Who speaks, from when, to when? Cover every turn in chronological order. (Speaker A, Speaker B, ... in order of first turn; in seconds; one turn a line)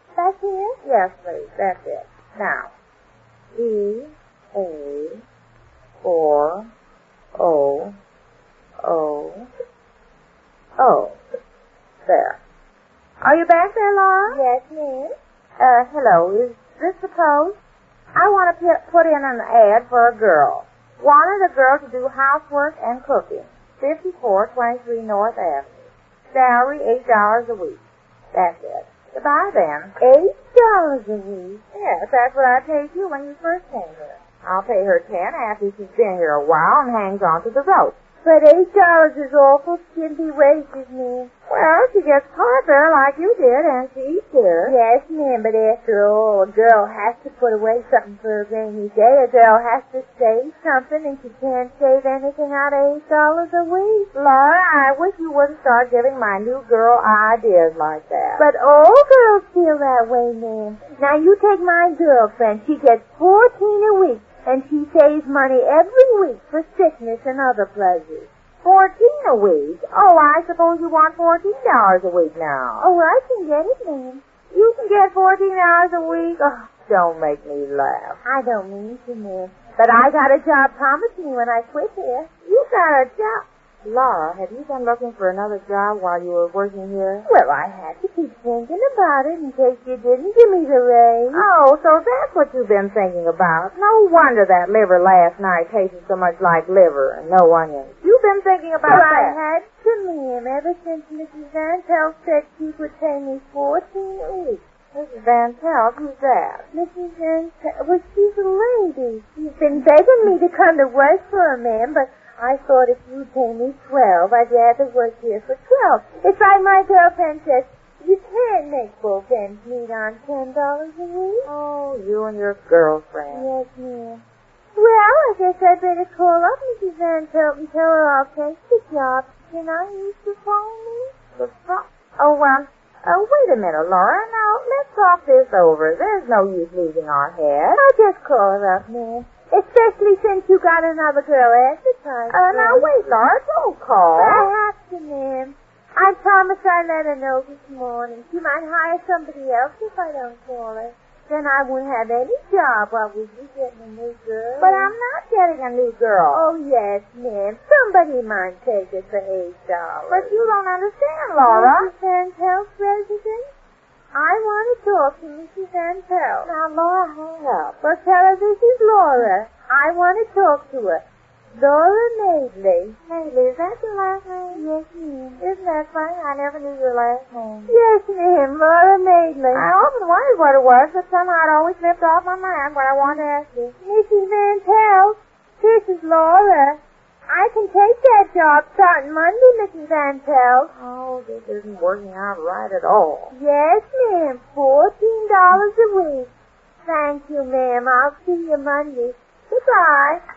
Speaker A: 0.2-0.8
Speaker B: 0.8-2.7
Speaker B: 3.5-5.2
Speaker B: 6.0-6.7
Speaker B: 7.4-8.0
Speaker B: 8.8-9.5
Speaker B: 10.8-11.2
Speaker B: 12.1-12.4
Speaker B: 13.2-14.4
Speaker A: 14.3-15.2
Speaker B: 15.6-17.6
Speaker B: 18.1-27.8
Speaker B: 28.3-30.0
Speaker A: 30.0-31.6
Speaker B: 31.7-38.0
Speaker A: 38.2-41.3
Speaker B: 41.5-44.8
Speaker A: 44.6-54.1
Speaker B: 54.1-58.5
Speaker A: 58.4-68.3
Speaker B: 68.6-72.9
Speaker A: 72.8-74.2
Speaker B: 74.5-78.2
Speaker A: 78.2-82.3
Speaker B: 82.5-87.3
Speaker A: 87.2-91.4
Speaker B: 91.3-99.4
Speaker A: 98.8-104.6
Speaker B: 104.9-106.7
Speaker A: 106.7-121.5
Speaker B: 121.5-123.5
Speaker A: 123.3-124.2
Speaker A: 124.8-131.1
Speaker B: 131.4-137.8
Speaker A: 137.7-142.9
Speaker B: 142.3-144.5
Speaker A: 144.2-154.9
Speaker B: 154.6-156.4
Speaker A: 156.3-160.4
Speaker B: 160.1-161.9
Speaker A: 161.4-163.5
Speaker A: 164.1-166.6
Speaker B: 166.4-167.8
Speaker A: 167.8-171.0
Speaker A: 171.6-173.0
Speaker B: 173.1-174.6
Speaker A: 174.5-175.4
Speaker B: 175.4-177.8
Speaker A: 177.7-179.7
Speaker B: 179.5-183.7
Speaker A: 183.8-186.8
Speaker A: 187.3-190.7
Speaker B: 190.7-193.3
Speaker A: 193.3-196.3
Speaker A: 196.9-200.2